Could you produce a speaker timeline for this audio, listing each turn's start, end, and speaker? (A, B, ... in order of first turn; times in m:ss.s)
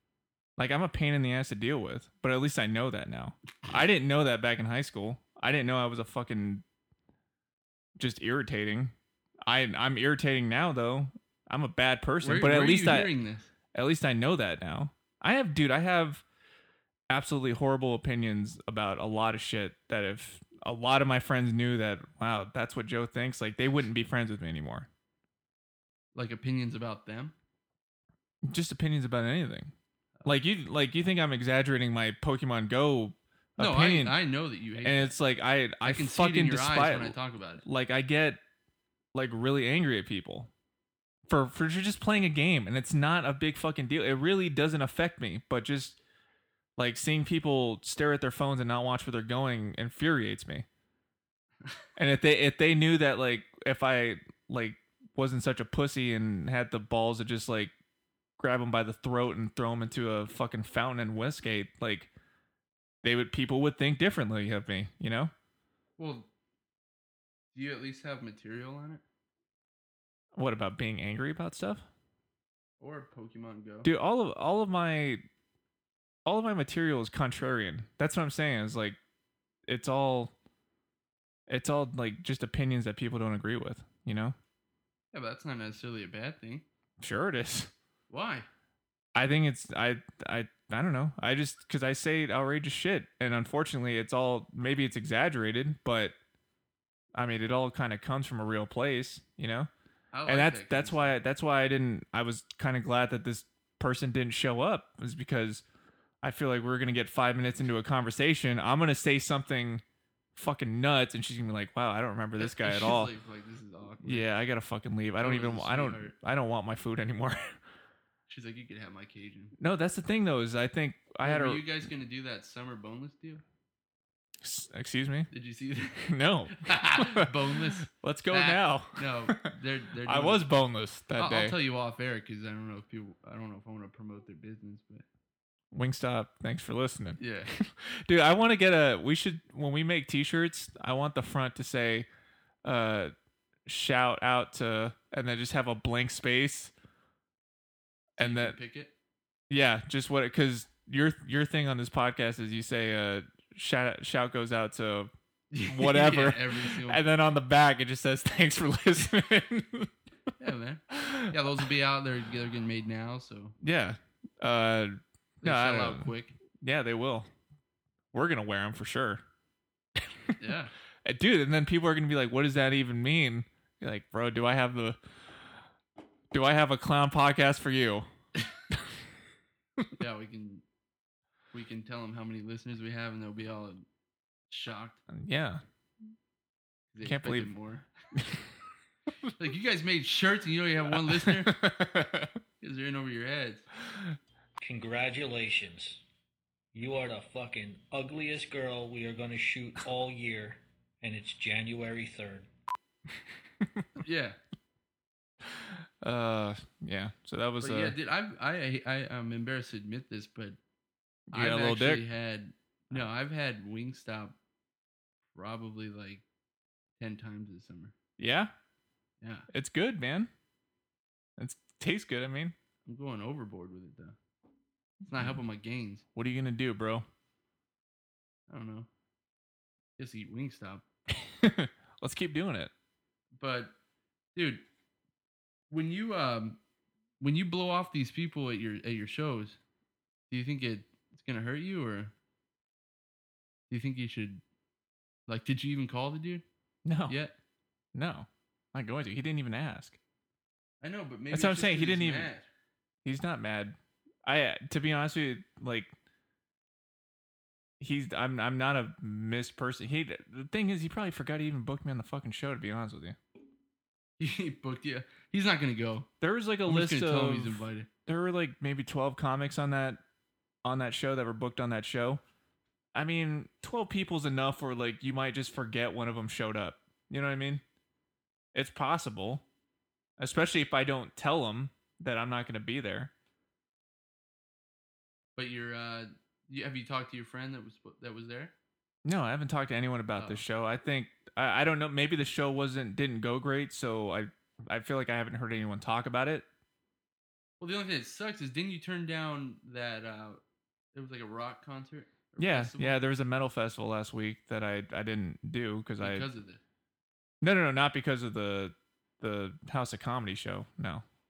0:00.6-0:06.6 A
0:08.0-0:08.9 A
0:09.4-0:13.1 A
0:12.2-0:13.5 B
0:13.7-0:16.2 A
0:17.1-0:24.9 A
0:26.1-0:27.3 B
0:28.4-0:29.7 A
0:30.2-0:34.2 A
0:33.6-0:35.2 B
0:34.8-0:38.4 A
0:35.8-0:37.6 B
0:39.1-0:40.5 A
0:41.3-0:46.0 A
0:46.8-0:50.6 A
0:52.0-0:57.7 A
0:58.4-1:02.1 A
1:03.0-1:05.3 A
1:06.0-1:06.3 B
1:07.5-1:09.0 B
1:10.3-1:11.8 A
1:12.8-1:13.9 B
1:13.8-1:15.2 A
1:16.2-1:19.0 A
1:19.7-1:20.3 A
1:21.5-1:24.4 A
1:25.1-1:26.6 B
1:27.0-1:27.7 A
1:28.1-1:28.5 B
1:29.1-1:36.1 A
1:37.1-1:39.7 A
1:40.1-1:41.2 B
1:40.3-1:45.6 A
1:46.2-1:49.8 A
1:50.3-1:53.1 A
1:52.4-1:54.3 B
1:54.0-1:57.6 A
1:55.2-1:56.1 B
1:58.3-1:59.5 B
1:59.6-2:01.6 A
2:01.2-2:03.4 B
2:04.4-2:05.3 A
2:05.3-2:06.1 B
2:06.0-2:09.4 A
2:06.6-2:10.5 B
2:10.0-2:11.6 A
2:11.1-2:15.0 B
2:15.7-2:22.1 A
2:17.2-2:17.5 B
2:22.6-2:23.1 A
2:23.6-2:26.7 A
2:28.2-2:28.9 B
2:28.2-2:28.6 A
2:29.5-2:35.1 A
2:35.5-2:37.0 B
2:35.7-2:39.9 A
2:40.4-2:43.5 B
2:41.0-2:41.3 A
2:43.6-2:47.3 A
2:45.4-2:46.4 B
2:48.1-2:49.2 A
2:50.0-2:50.3 A
2:50.4-2:50.7 B
2:51.0-2:55.0 A
2:56.3-2:58.1 A
3:00.0-3:00.6 B
3:01.5-3:03.8 B
3:04.5-3:05.0 B
3:05.1-3:05.6 A
3:06.9-3:07.9 B
3:07.0-3:07.5 A
3:09.4-3:11.5 B
3:10.9-3:12.3 A
3:12.6-3:13.6 B
3:14.6-3:16.0 C
3:16.7-3:22.5 C
3:24.0-3:24.4 B
3:25.5-3:28.0 A
3:27.6-3:30.6 B
3:31.3-3:32.0 A
3:31.3-3:34.3 B
3:35.3-3:36.2 B
3:37.0-3:37.9 B
3:38.2-3:38.5 A
3:39.2-3:39.5 B
3:39.5-3:40.3 A
3:41.4-3:42.5 A
3:42.8-3:44.2 B
3:45.0-3:46.0 B
3:46.1-3:47.0 A
3:48.5-3:48.9 B
3:50.0-3:50.8 B
3:51.1-3:52.7 A
3:53.4-3:53.7 B
3:54.3-3:54.6 B
3:55.7-3:56.6 B
3:57.2-3:59.6 B
4:00.3-4:02.1 B
4:03.7-4:04.4 B
4:05.3-4:06.4 B
4:06.8-4:07.1 A
4:07.1-4:07.3 B
4:07.9-4:10.0 A
4:10.8-4:12.5 B
4:11.3-4:12.3 A
4:13.0-4:15.9 A
4:17.8-4:23.2 A
4:24.2-4:26.1 B
4:26.2-4:30.0 A
4:26.6-4:27.9 B
4:30.6-4:32.2 A
4:32.9-4:37.6 A
4:38.5-4:39.4 A
4:40.2-4:43.1 A
4:45.4-4:48.5 B
4:49.0-4:56.4 A
4:50.2-4:50.4 B
4:57.6-5:00.4 B
5:00.9-5:03.0 B
5:02.4-5:06.3 A
5:06.0-5:06.6 B
5:07.4-5:11.0 A